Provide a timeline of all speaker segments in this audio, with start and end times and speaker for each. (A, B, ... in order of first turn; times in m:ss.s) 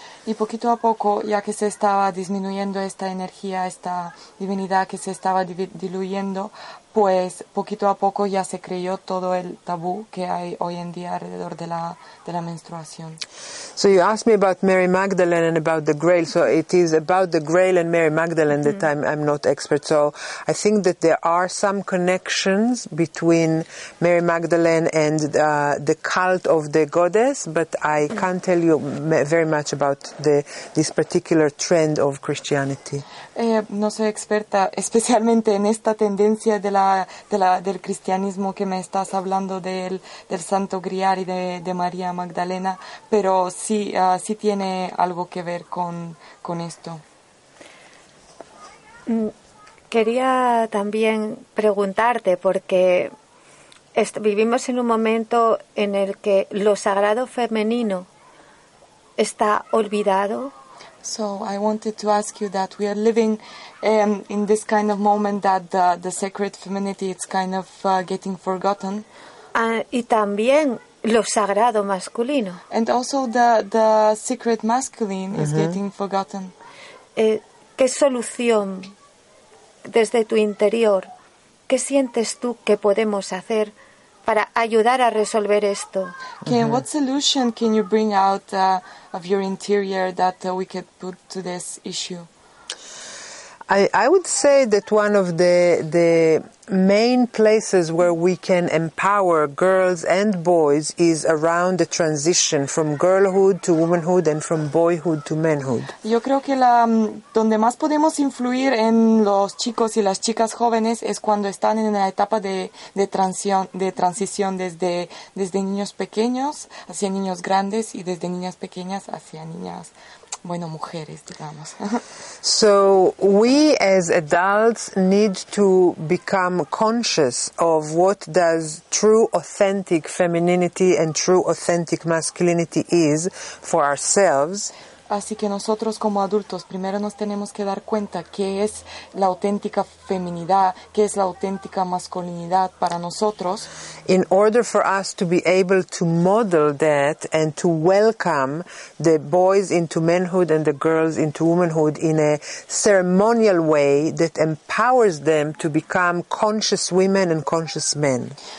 0:00.3-0:13.2 A
0:13.8-0:33.0 B
0:33.4-0:47.0 A
0:49.1-0:49.3 C
0:49.9-0:53.1 C
0:54.0-0:58.1 C
0:59.2-1:00.5 C
1:01.0-1:09.1 A
1:09.5-1:12.6 C
1:12.7-1:16.5 A
1:15.4-1:15.8 B
1:17.2-1:18.9 C
1:19.8-1:21.1 C
1:21.7-1:23.7 C
1:24.3-1:26.2 C
1:26.4-1:32.3 A
1:26.5-1:26.8 B
1:33.7-1:45.9 B
1:46.0-2:02.0 A
2:02.4-2:14.7 B
2:15.1-2:23.7 A
2:24.1-2:38.4 B